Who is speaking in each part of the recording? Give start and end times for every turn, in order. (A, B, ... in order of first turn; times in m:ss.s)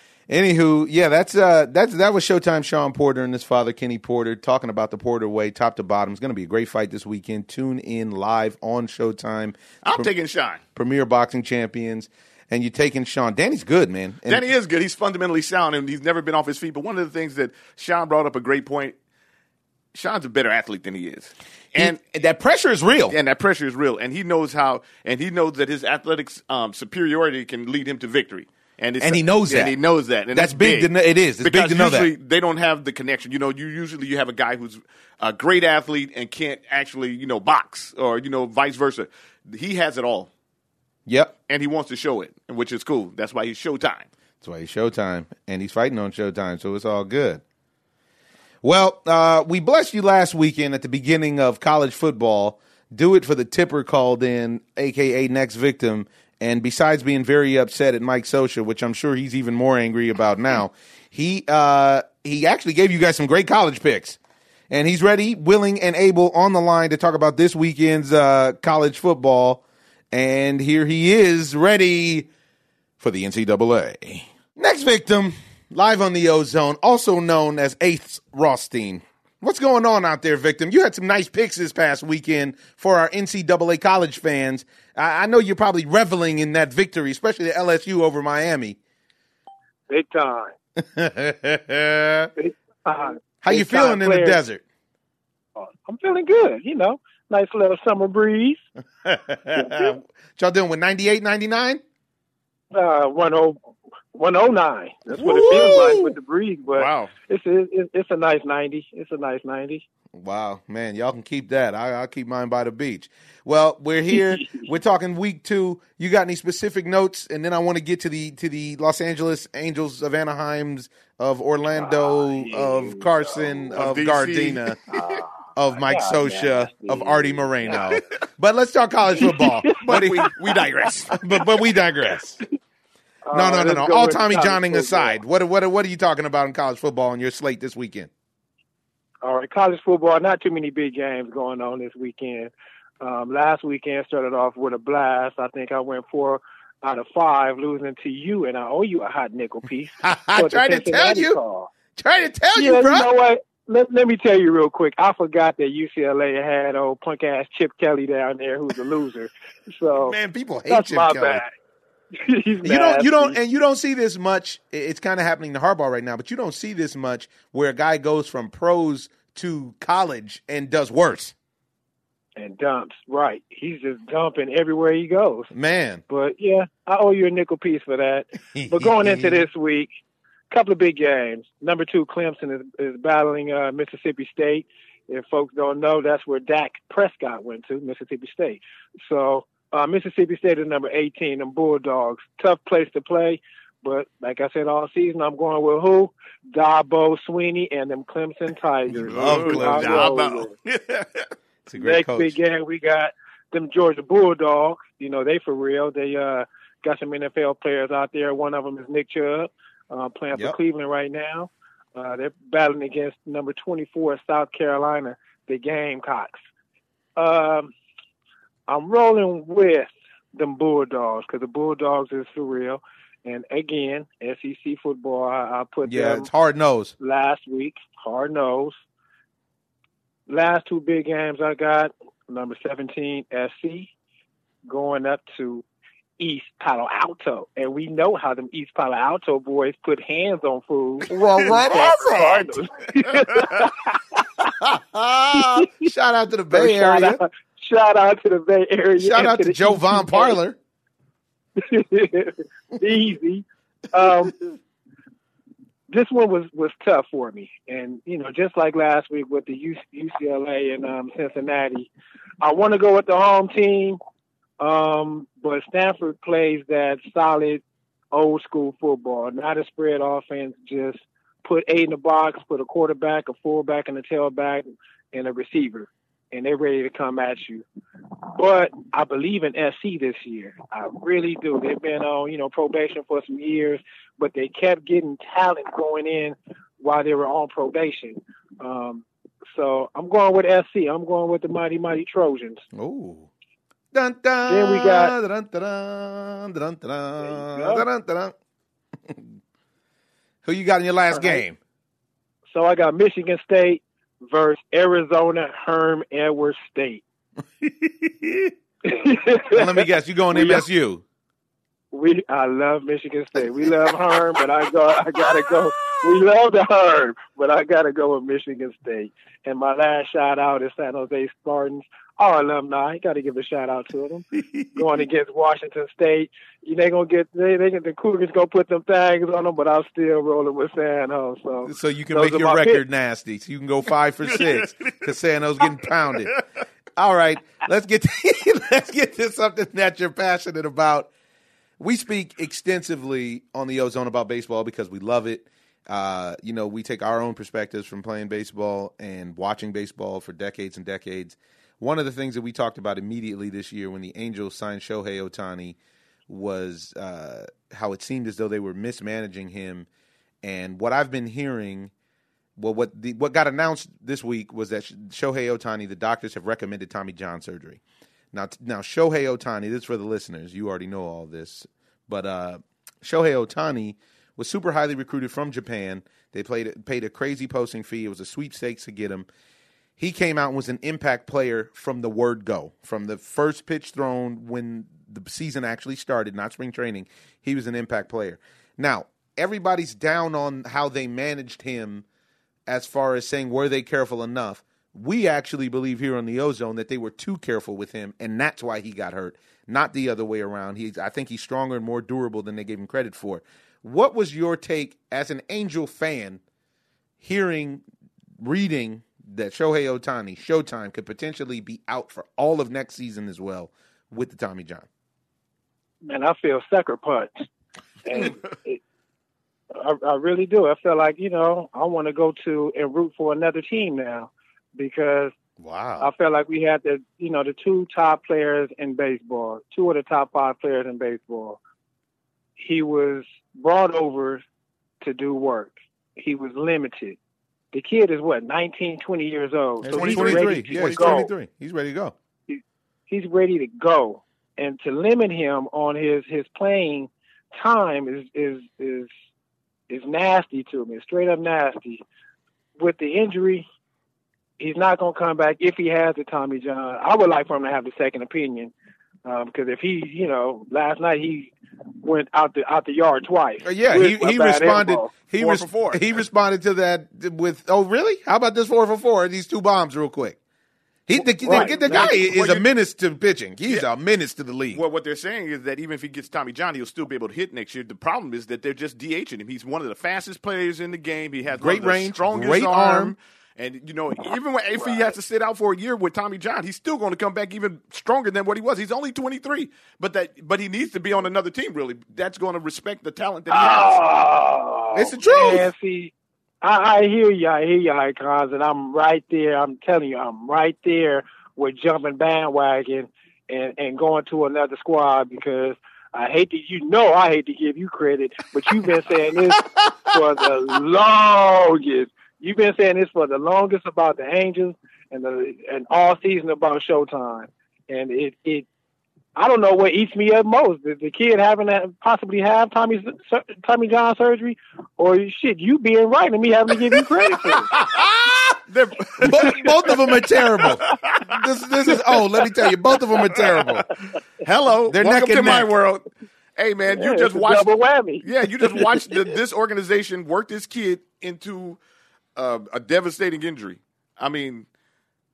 0:00.3-0:10.1 A
0:09.8-0:10.6 B
0:10.8-0:14.5 A
0:14.3-0:19.0 B
0:19.9-0:22.0 B
0:21.8-0:23.2 A
0:23.1-0:40.3 B
0:29.0-0:29.8 A
0:30.3-0:32.1 A
0:41.0-0:41.3 A
0:41.5-0:44.1 B
0:44.4-0:47.4 A
0:48.6-1:04.2 A
1:04.7-1:12.3 A
1:13.0-1:28.8 A
1:29.9-1:30.5 C
1:30.8-1:32.3 A
1:32.4-1:34.4 C
1:33.4-1:34.6 A
1:35.6-1:38.6 C
1:39.0-1:41.8 A
1:39.6-1:39.9 C
1:42.7-1:43.6 C
1:44.1-1:49.8 C
1:45.2-1:46.2 A
1:45.5-1:45.8 B
1:46.7-1:47.1 B
1:50.1-2:04.8 A
1:54.1-1:54.6 C
2:03.7-2:05.2 B
2:04.9-2:07.8 C
2:05.6-2:10.4 A
2:07.7-2:08.0 B
2:09.1-2:10.3 C
2:09.8-2:11.2 B
2:11.1-2:12.4 A
2:13.2-2:15.2 C
2:13.3-2:18.1 A
2:19.2-2:31.7 C
2:30.0-2:31.4 A
2:32.0-2:33.1 A
2:32.5-2:40.2 C
2:40.0-2:41.4 A
2:40.7-2:41.5 C
2:42.1-2:43.4 C
2:42.6-2:51.3 A
2:52.4-2:55.5 C
2:55.5-2:56.0 A
2:56.1-2:59.9 C
2:58.5-2:59.4 A
3:00.5-3:20.5 C
3:18.9-3:20.2 A
3:19.1-3:21.3 B
3:21.7-3:22.3 A
3:21.8-3:36.4 C
3:37.2-3:37.7 C
3:38.7-3:46.3 C
3:45.8-3:46.9 A
3:47.0-3:48.8 C
3:50.3-3:53.9 C
3:54.7-3:55.6 C
3:56.2-4:04.0 C
4:01.1-4:02.6 A
4:04.9-4:07.2 A
4:05.3-4:05.9 C
4:06.5-4:10.4 C
4:09.0-4:10.6 A
4:11.6-4:14.3 C
4:15.9-4:21.9 C
4:22.4-4:24.0 C
4:24.6-4:37.6 C
4:38.4-4:52.6 C
4:52.7-4:53.3 A
4:53.9-4:58.3 A
4:54.5-4:55.1 C
4:57.5-4:57.8 C
5:00.4-5:01.6 A
5:01.1-5:01.4 C
5:02.5-5:07.0 C
5:07.6-5:08.5 A
5:08.8-5:10.6 C
5:09.5-5:11.0 A
5:11.9-5:24.2 C
5:13.4-5:13.9 A
5:24.5-5:24.8 A
5:24.8-5:32.8 C
5:31.6-5:36.4 A
5:34.4-5:34.9 B
5:37.0-5:41.1 A
5:41.8-5:55.8 A
5:56.3-5:59.9 A
6:00.4-6:01.9 A
6:02.6-6:07.8 A
6:08.3-6:19.3 A
6:20.0-6:32.0 A
6:32.7-6:46.4 A
6:47.2-6:47.8 A
6:48.4-6:54.9 A
6:56.0-6:57.4 C
6:58.0-6:58.8 C
6:59.7-7:05.3 C
7:05.6-7:06.1 A
7:06.0-7:11.6 C
7:12.6-7:14.4 C
7:15.0-7:17.2 C
7:17.7-7:21.3 C
7:19.8-7:22.1 A
7:19.9-7:21.2 B
7:22.5-7:29.1 C
7:29.9-7:32.0 C
7:32.8-7:33.7 C
7:34.6-7:38.7 C
7:39.2-7:45.1 C
7:43.6-7:50.4 A
7:45.3-7:46.1 B
7:51.1-7:54.8 A
7:51.2-7:52.1 C
7:51.4-7:52.6 B
7:54.7-8:14.0 B
8:01.5-8:03.1 A
8:13.5-8:38.7 C
8:14.9-8:15.7 A
8:39.4-8:47.7 C
8:48.0-8:48.6 A
8:48.7-8:50.0 B
8:49.2-8:53.9 A
8:49.2-8:49.8 C
8:50.6-8:51.3 B
8:53.4-8:53.7 B
8:54.4-8:56.0 B
8:54.9-8:55.7 A
8:56.6-9:01.8 B
8:56.9-8:59.3 C
9:02.4-9:04.6 B